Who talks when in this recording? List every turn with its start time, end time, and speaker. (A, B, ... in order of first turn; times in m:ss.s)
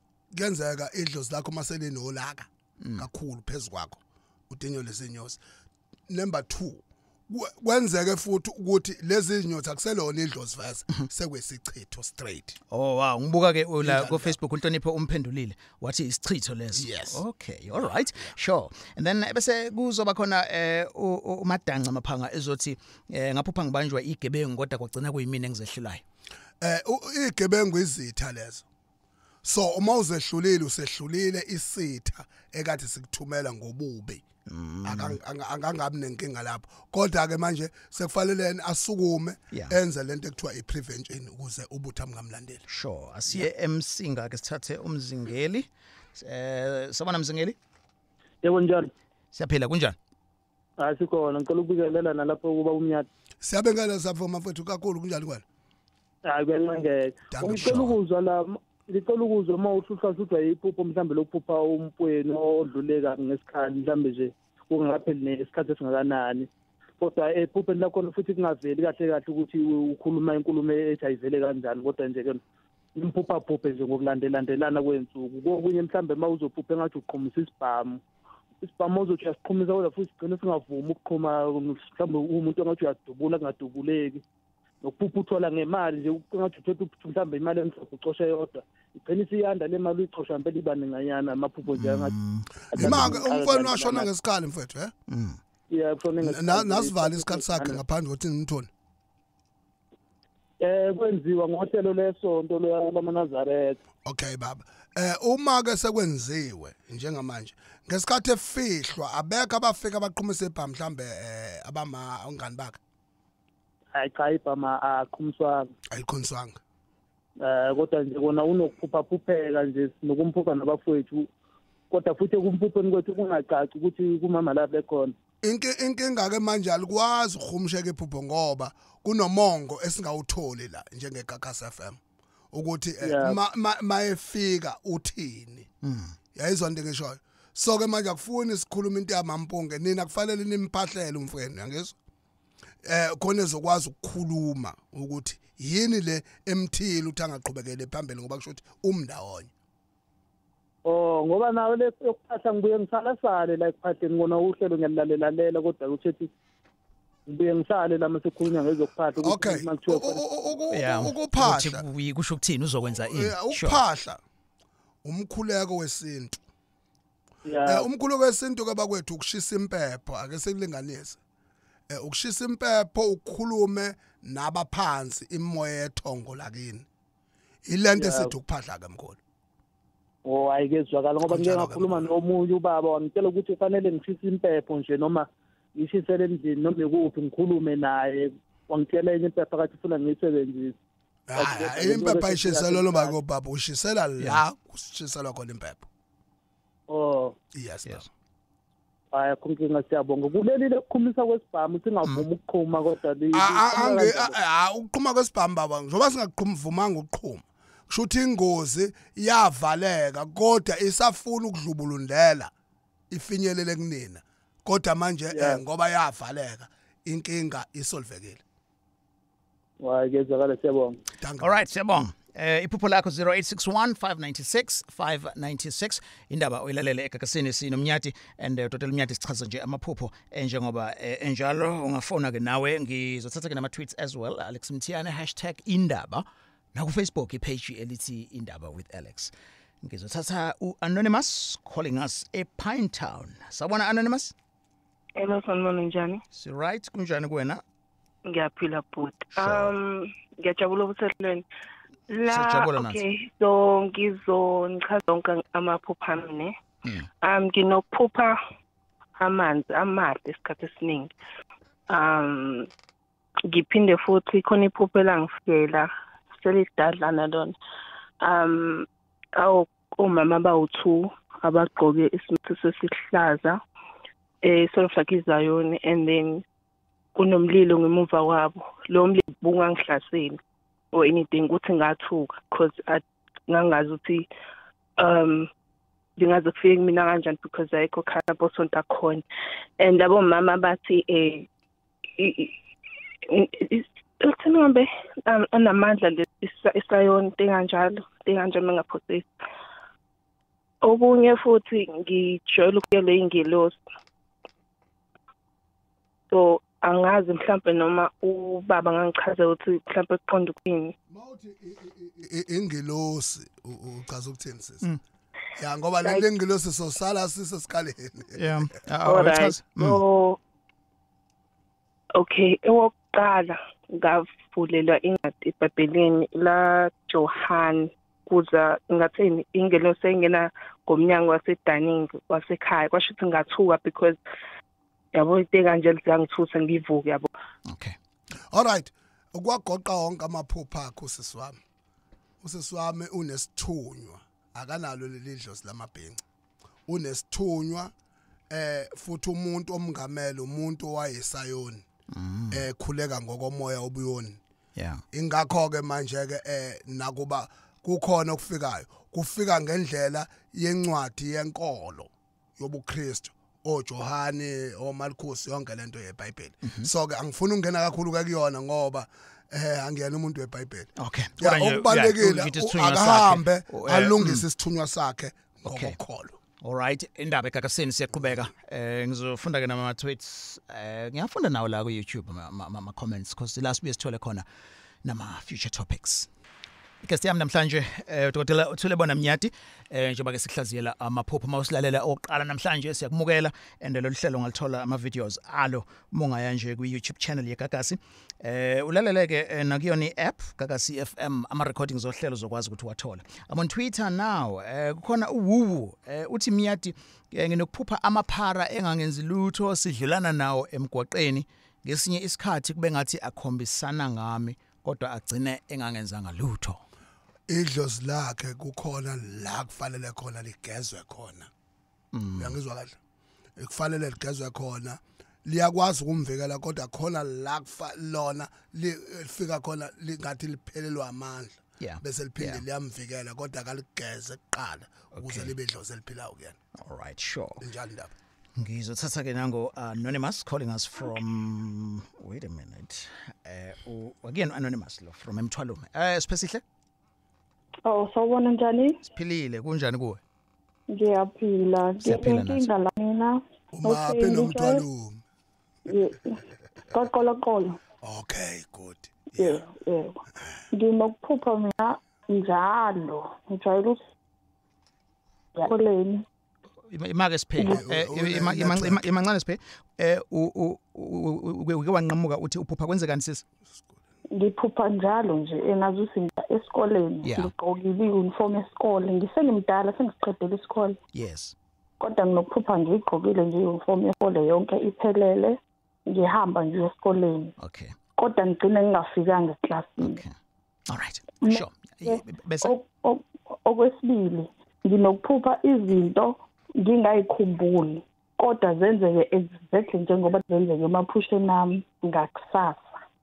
0:00.3-0:05.4 A
0:02.8-0:03.0 B
0:06.1-0:12.6 A
0:12.7-0:26.0 B
0:13.8-0:14.4 A
0:16.7-0:17.2 A
0:17.7-0:18.3 A
0:26.6-0:28.6 A
0:29.4-0:34.2 A
0:34.5-0:35.2 B
0:34.8-0:42.6 A
0:39.5-0:39.8 B
0:42.7-0:47.6 B
0:48.4-0:48.9 C
0:49.3-0:50.0 B
0:50.8-0:53.1 C
0:53.4-0:55.4 A
0:56.2-1:06.5 C
0:57.3-0:58.0 A
0:57.5-0:57.9 B
1:07.0-1:12.4 C
1:13.0-1:18.0 C
1:18.6-1:24.2 C
1:24.8-1:32.1 C
1:31.7-1:33.1 B
1:32.7-1:34.1 C
1:32.7-1:34.9 A
1:35.1-1:35.4 B
1:35.7-1:37.8 C
1:36.2-1:38.7 A
1:40.6-1:43.8 C
1:44.0-1:52.8 A
1:53.9-1:55.7 C
1:55.9-1:56.6 A
1:57.4-2:01.3 C
2:01.9-2:05.1 C
2:05.4-2:12.0 A
2:12.5-2:15.7 A
2:13.0-2:13.4 C
2:15.8-2:16.2 B
2:16.3-2:21.9 A
2:22.8-2:29.5 A
2:30.8-2:36.3 C
2:37.3-2:40.2 C
2:39.2-2:41.8 A
2:40.7-2:43.8 B
2:42.9-2:44.2 A
2:45.0-2:46.4 A
2:47.4-2:47.8 C
2:47.6-2:51.2 A
2:51.9-2:56.8 A
2:57.6-2:59.2 A
2:58.0-2:58.3 C
3:00.2-3:10.8 C
3:01.2-3:02.1 A
3:11.3-3:15.9 A
3:11.4-3:13.1 C
3:16.9-3:17.3 C
3:17.5-3:18.1 A
3:19.1-3:24.3 C
3:23.3-3:32.5 A
3:33.1-3:38.4 A
3:35.3-3:35.6 C
3:39.8-3:41.0 C
3:41.2-3:41.6 A
3:41.4-4:04.3 B
4:05.2-4:06.2 D
4:06.3-4:07.6 B
4:08.3-4:11.4 D
4:09.4-4:09.8 B
4:12.1-4:16.5 D
4:12.3-4:13.0 B
4:17.2-4:18.4 D
4:19.2-4:21.1 D
4:21.9-4:22.7 D
4:23.5-4:27.5 D
4:28.2-4:33.6 D
4:34.4-4:36.4 D
4:37.2-4:40.4 D
4:40.9-4:44.2 D
4:45.0-4:45.5 D
4:46.2-4:49.2 D
4:49.8-4:51.4 D
4:52.2-4:52.5 D
4:53.3-4:59.3 D
5:00.8-5:03.8 D
5:06.3-5:10.9 D
5:11.1-5:14.8 A
5:15.6-5:18.6 A
5:18.4-5:20.0 B
5:19.0-5:20.4 D
5:22.2-5:34.2 D
5:35.1-5:37.3 D
5:37.6-5:38.0 B
5:38.5-5:41.6 A
5:42.4-5:46.2 A
5:46.9-5:47.9 A
5:48.5-5:51.8 A
5:52.1-5:52.7 B
5:52.5-5:54.4 A
5:54.8-5:55.0 B
5:55.1-6:16.4 A
6:06.6-6:06.9 B
6:11.0-6:14.4 B
6:15.7-6:16.0 B
6:16.6-6:24.4 B
6:25.0-6:26.3 B
6:27.0-6:56.8 B
6:57.5-7:01.5 A
7:02.1-7:02.6 B
7:02.4-7:03.0 A
7:03.6-7:16.6 A
7:11.8-7:12.6 B
7:15.1-7:15.5 B
7:16.8-7:17.6 B
7:17.6-7:18.1 A
7:18.6-7:26.6 B
7:27.8-7:29.0 E
7:29.0-7:30.2 B
7:30.9-7:34.8 E
7:32.0-7:32.6 B
7:33.7-7:35.2 A
7:35.9-7:37.8 E
7:38.0-7:39.6 A
7:39.4-7:40.2 E
7:40.7-7:44.0 E
7:45.6-7:46.2 E
7:46.9-7:53.4 B
7:47.6-7:47.8 E
7:47.7-7:49.1 A
7:53.7-7:54.0 A
7:54.3-8:01.0 E
7:57.2-7:57.5 B
8:01.1-8:01.5 B
8:02.0-8:07.5 E
8:07.6-8:07.9 B
8:08.2-8:10.2 E
8:10.0-8:10.3 B
8:10.9-8:12.7 B
8:11.4-8:22.9 E